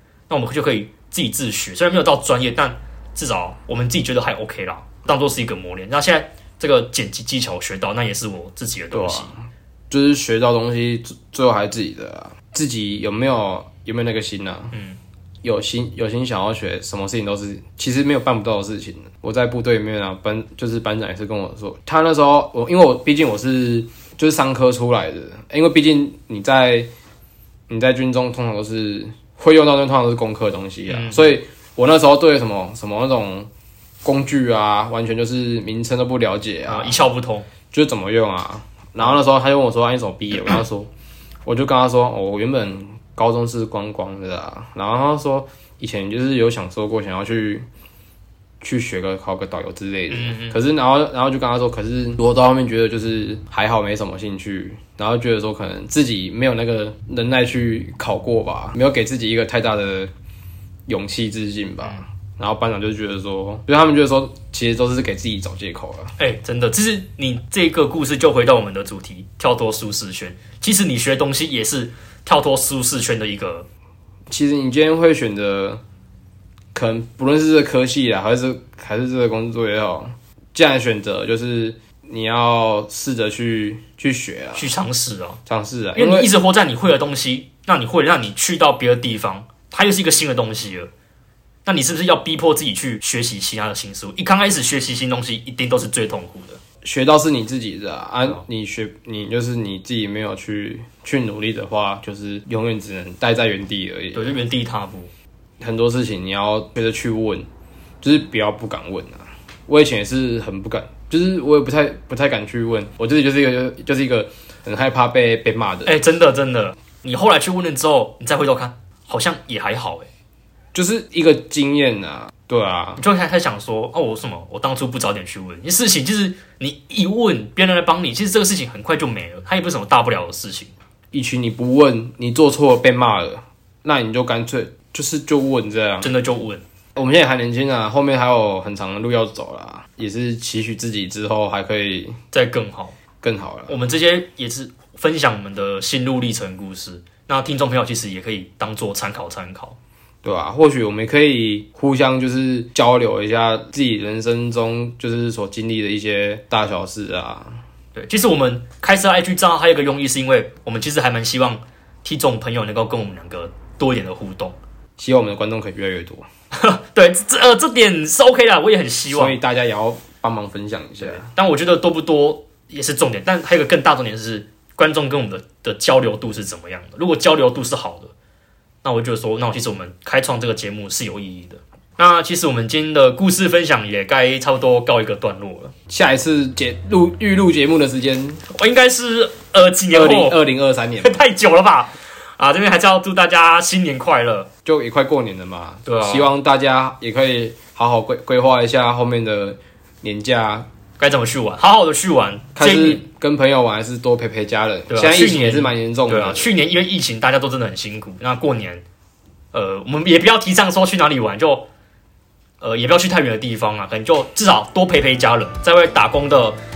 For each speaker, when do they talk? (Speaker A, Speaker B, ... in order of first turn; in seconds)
Speaker A: 0.3-9.3, 14.7-15.0, 30.9-31.3, 36.7-37.5, 50.1-50.6, 66.2-73.7, 84.6-85.4, 86.0-90.9, 91.7-96.6, 104.1-105.1, 115.9-120.1, 123.0-130.7, 136.0-136.7, 142.3-143.0, 143.7-149.8, 157.9-164.6, 166.5-169.4, 171.0-178.1, 178.8-185.7, 188.5-190.4, 191.0-194.5, 195.9-196.3, 201.0-203.0, 204.9-208.8, 209.5-211.7, 212.6-216.6
Speaker B: 8.9-14.8, 15.4-26.9, 27.7-33.5, 34.0-37.0, 37.7-40.9, 41.5-47.7, 48.6-60.1, 60.9-66.1, 74.3-75.8, 76.8-84.7, 85.5-86.3, 96.8-104.4, 105.6-107.5, 108.0-116.0, 120.8-123.0, 131.1-136.1, 137.0-142.2, 143.2-143.8, 150.2-157.6, 165.0-166.3, 169.1-171.3, 185.9-188.4, 189.9-191.2, 194.7-200.7, 202.6-206.5